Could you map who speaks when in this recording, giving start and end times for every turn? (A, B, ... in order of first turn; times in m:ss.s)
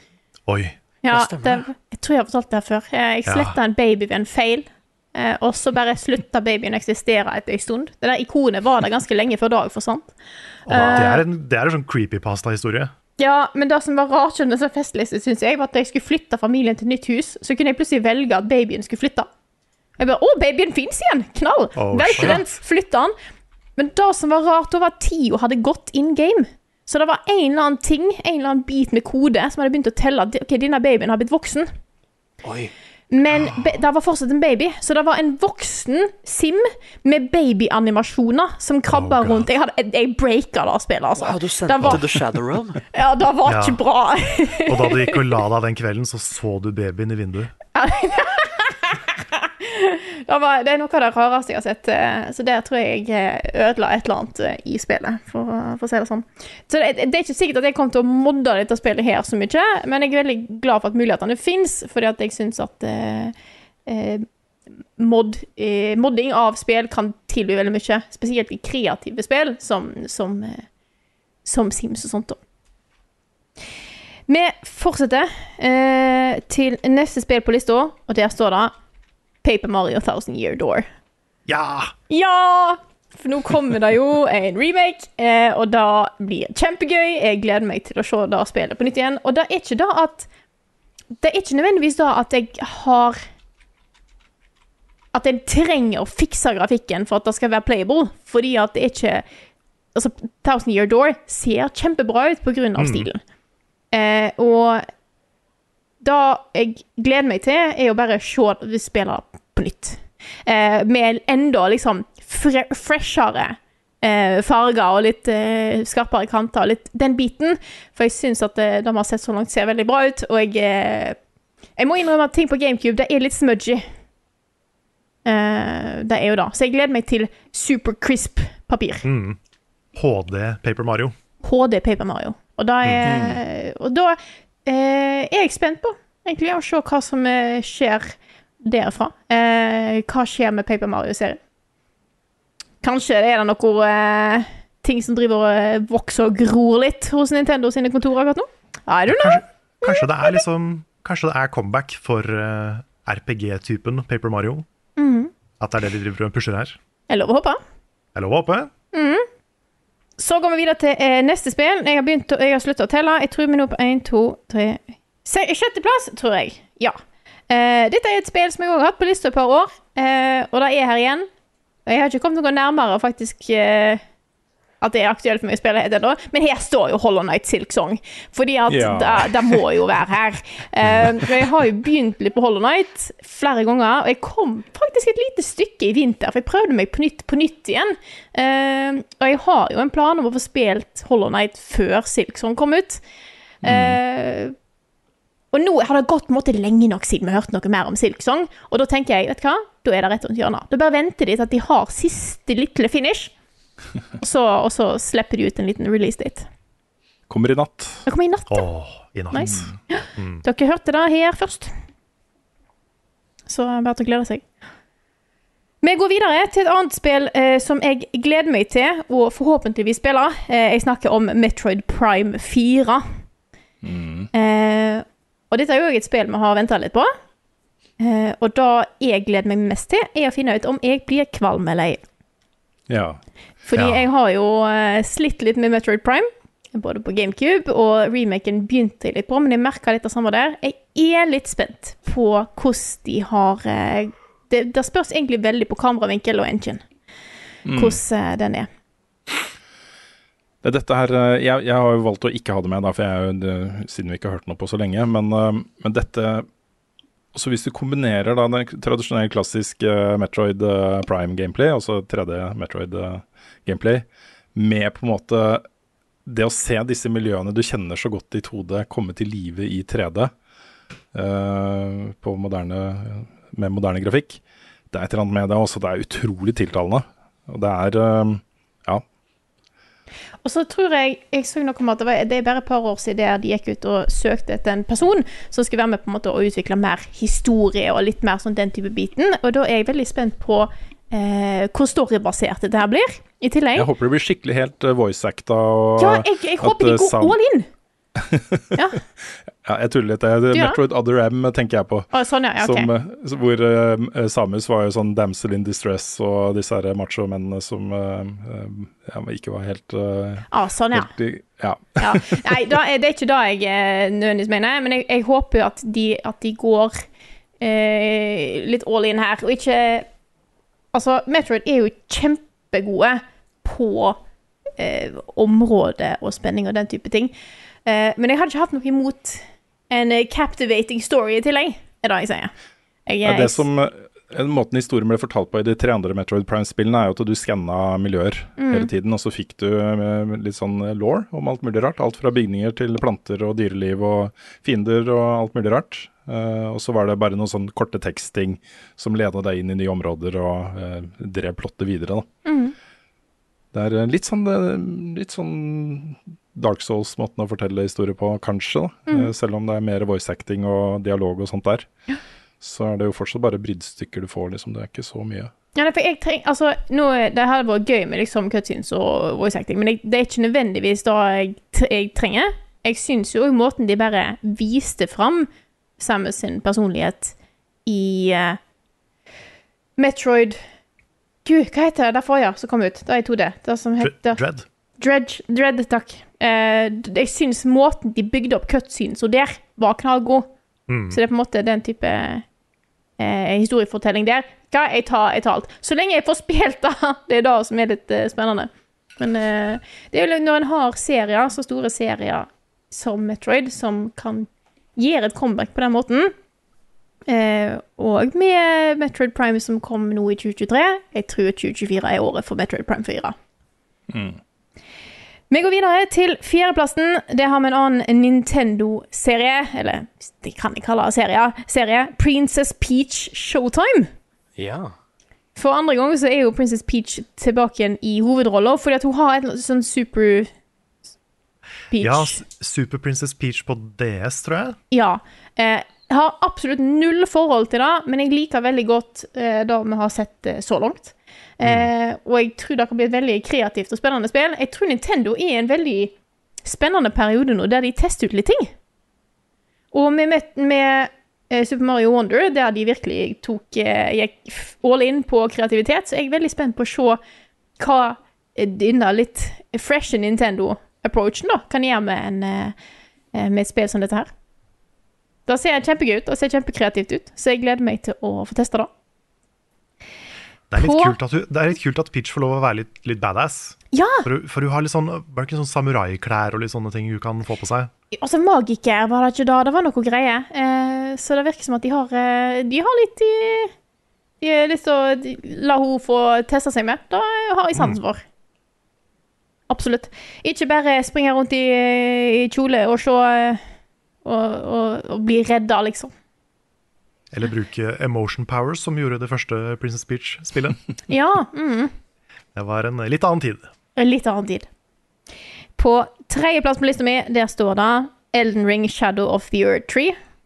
0:00.5-0:00.8 A
0:01.0-0:10.1 B
0:01.1-0:01.6 C
0:03.3-0:03.6 A
0:10.7-0:11.2 B
0:10.7-0:12.9 A
0:10.8-0:11.2 C
0:13.2-0:19.3 B
0:20.0-0:23.1 B
0:21.8-0:22.5 A
0:23.8-0:31.7 B
0:32.4-0:32.7 C
0:33.1-0:42.2 B
0:38.9-0:39.5 A
0:41.2-0:42.8 C
0:42.9-0:45.2 B
0:43.4-0:43.8 A
0:44.7-0:47.5 A
0:47.8-1:03.3 B
1:03.9-1:04.2 B
1:05.0-1:10.6 B
1:11.4-1:12.4 B
1:14.3-1:18.7 B
1:19.4-1:20.9 B
1:21.5-1:21.9 A
1:22.1-1:30.3 B
1:31.2-1:33.2 B
1:35.1-1:39.2 B
1:40.0-1:43.2 B
1:42.8-1:43.1 A
1:43.9-1:44.8 B
1:46.0-2:01.2 B
2:01.8-2:03.8 B
2:05.2-2:09.0 B
2:09.0-2:09.4 A
2:10.0-2:11.1 A
2:11.4-2:21.4 B
2:12.8-2:13.1 A
2:13.0-2:13.4 D
2:22.8-2:30.4 B
2:29.1-2:34.6 A
2:35.0-2:35.3 B
2:35.6-2:36.8 A
2:37.1-2:37.6 B
2:38.2-2:38.7 A
2:38.9-2:39.2 B
2:40.2-2:47.0 B
2:47.5-2:51.3 B
2:51.9-2:54.0 B
2:54.8-3:13.0 B
2:58.7-2:59.6 D
3:13.6-3:14.0 D
3:13.6-3:14.5 B
3:15.5-3:23.3 B
3:24.2-3:26.5 B
3:27.3-3:28.0 D
3:28.1-3:28.7 B
3:28.5-3:30.4 A
3:29.3-3:31.7 B
3:29.4-3:29.7 D
3:33.5-3:34.4 B
3:35.8-3:43.0 B
3:43.8-3:44.3 D
3:44.3-3:47.1 B
3:48.0-3:52.0 B
3:52.9-3:53.2 D
3:53.7-4:06.8 B
3:53.7-3:54.0 D
4:07.7-4:08.0 D
4:07.7-4:08.7 B
4:10.6-4:16.5 D
4:17.3-4:25.6 D
4:26.3-4:30.3 D
4:31.1-4:39.0 D
4:40.4-4:53.9 B
4:53.8-4:57.4 D
4:56.0-4:57.7 B
4:58.2-5:12.8 D
4:58.8-4:59.0 B
5:00.5-5:00.8 B
5:02.1-5:02.9 B
5:10.5-5:11.1 B
5:12.0-5:17.0 B
5:17.6-5:20.1 B
5:20.9-5:24.2 B
5:24.8-5:27.3 B
5:27.9-5:32.5 B
5:33.1-5:33.6 B
5:33.2-5:52.3 D
5:38.6-5:38.9 B
5:52.4-5:52.8 B
5:53.7-6:01.9 D
6:02.6-6:05.5 D
6:05.8-6:15.5 B
6:16.0-6:17.4 B
6:17.9-6:18.6 B
6:20.0-6:20.6 B
6:21.4-6:24.4 B
6:24.0-6:24.6 A
6:25.0-6:30.5 B
6:30.9-6:31.2 A
6:31.1-6:32.4 B
6:33.2-6:46.3 B
6:47.3-6:53.4 B
6:54.1-6:54.4 D
6:55.5-7:04.1 B
7:04.6-7:04.9 C
7:05.6-7:10.5 B
7:11.9-7:12.4 B
7:12.0-7:14.8 A
7:14.9-7:26.1 B
7:26.6-7:28.7 B
7:29.9-7:37.2 B
7:37.8-7:42.8 B
7:43.3-7:44.3 B
7:45.5-7:48.9 B
7:50.7-7:57.9 A
7:50.8-7:51.2 B
7:53.9-7:54.3 B
7:58.1-8:03.7 B
8:04.4-8:08.2 B
8:09.7-8:13.6 B
8:14.2-8:16.1 B
8:17.3-8:20.8 A
8:21.1-8:21.9 B
8:22.6-8:23.7 A
8:24.0-8:24.7 B
8:25.8-8:30.2 B